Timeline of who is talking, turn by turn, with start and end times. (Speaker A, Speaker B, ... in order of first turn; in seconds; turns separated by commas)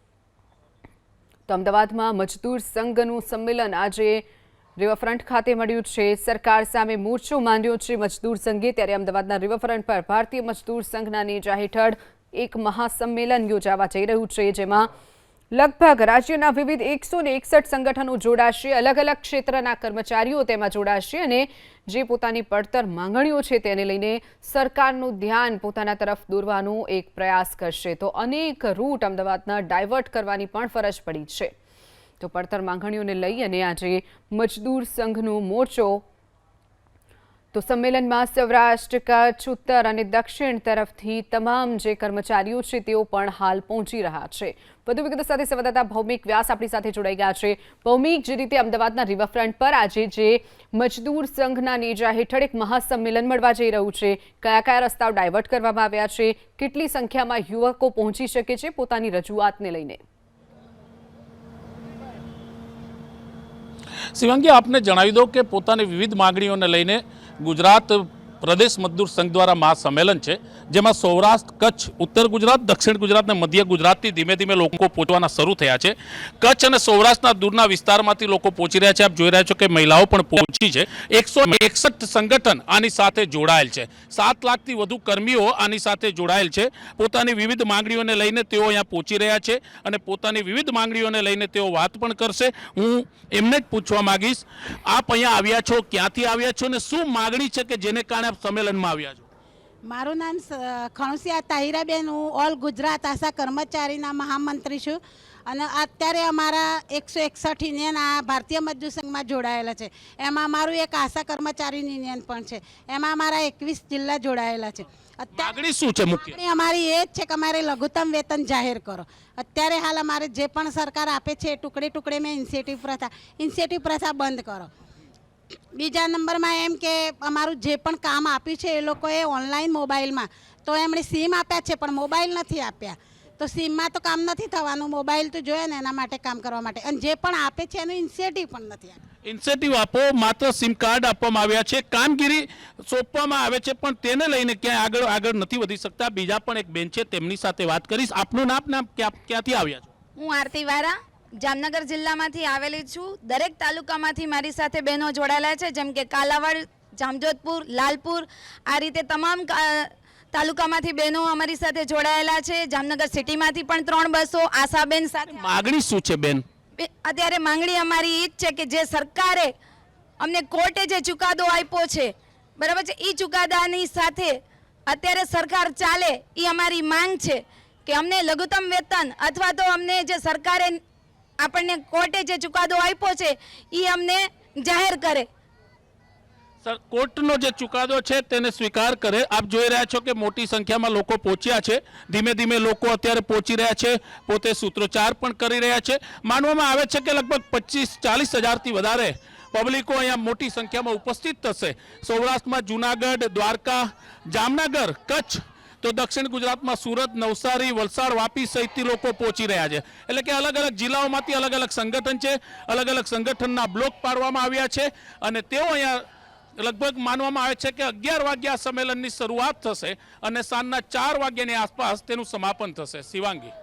Speaker A: 1.5-4.2, Speaker A: 4.8-14.9, Speaker A: 15.5-31.5, Speaker A: 32.2-36.0, Speaker A: 37.5-60.0, Speaker B: 64.2-99.2, Speaker C: 99.8-115.6, Speaker B: 115.3-116.4, Speaker C: 116.2-124.7, Speaker C: 125.7-139.0, Speaker B: 139.2-149.9, Speaker D: 150.2-165.4, Speaker B: 165.3-166.4, Speaker D: 166.8-169.5, Speaker D: 170.2-180.8, Speaker D: 181.4-185.3, Speaker B: 186.6-216.1, Speaker B: 216.6-223.5